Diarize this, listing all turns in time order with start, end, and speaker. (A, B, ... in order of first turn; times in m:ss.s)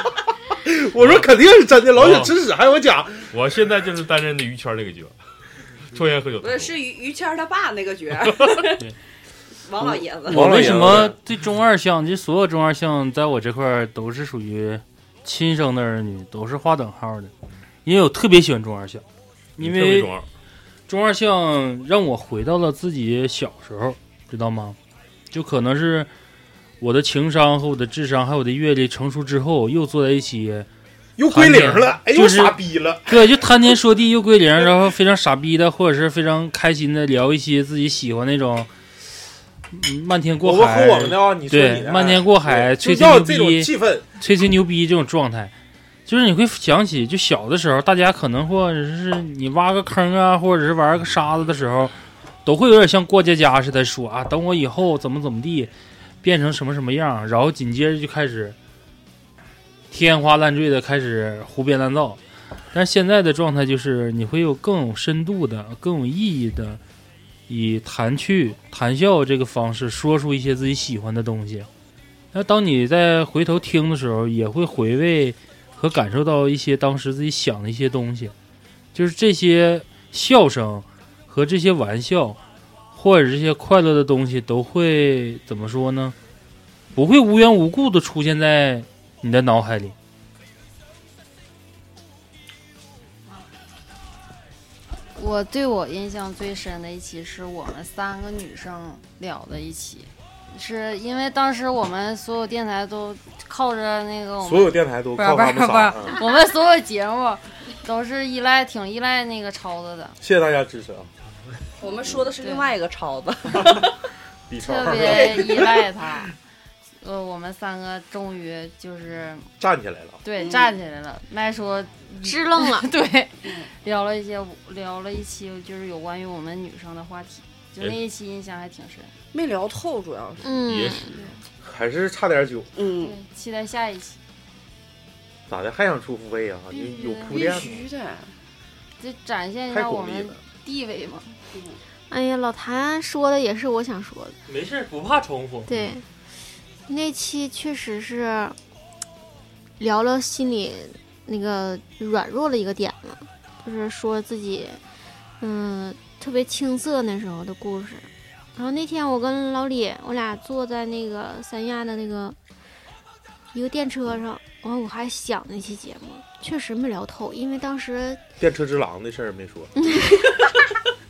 0:00.5-0:03.3 A
0:01.9-0:02.3 B
0:03.3-0:05.1 B
0:05.9-0:06.7 B
0:06.4-0:08.8 C
0:09.6-0:10.8 C
0:09.8-0:11.2 A
0:10.3-0:17.3 D
0:17.8-0:19.0 D
0:19.6-0:20.1 D
0:19.6-0:20.3 B
0:20.9-0:24.8 D
0:25.3-0:26.1 D
0:26.8-0:30.7 D
0:31.2-0:33.1 A
0:31.3-0:38.7 D
0:39.7-0:45.5 D
0:40.4-0:44.0 A
0:46.1-0:55.7 D
0:56.2-0:58.6 D
0:59.9-1:02.2 D
1:02.7-1:06.8 D
1:07.5-1:11.7 D
1:12.3-1:18.3 D
1:18.9-1:22.4 D
1:22.9-1:26.2 D
1:26.9-1:29.9 D
1:35.2-1:50.2 E
1:44.4-1:46.2 A
1:50.2-1:51.1 A
1:51.8-1:53.9 C
1:52.4-1:52.7 E
1:54.5-1:55.8 A
1:54.6-1:56.3 E
1:54.9-1:55.6 C
1:57.0-1:59.5 E
1:59.6-2:00.2 A
2:00.2-2:09.1 E
2:00.4-2:00.7 C
2:02.2-2:02.9 F
2:03.4-2:03.7 C
2:09.3-2:10.6 C
2:10.4-2:11.1 F
2:10.5-2:11.1 B
2:11.1-2:11.4 E
2:11.6-2:12.7 A
2:12.8-2:13.2 C
2:13.0-2:14.2 E
2:15.5-2:17.9 A
2:16.7-2:17.5 E
2:17.2-2:18.3 C
2:19.0-2:21.4 E
2:19.7-2:20.4 A
2:21.5-2:21.8 C
2:22.1-2:24.4 F
2:24.4-2:25.7 D
2:25.7-2:26.0 F
2:26.9-2:28.6 F
2:29.8-2:34.8 F
2:35.4-2:42.4 F
2:43.5-2:48.2 F
2:48.4-2:49.7 A
2:49.8-2:50.3 F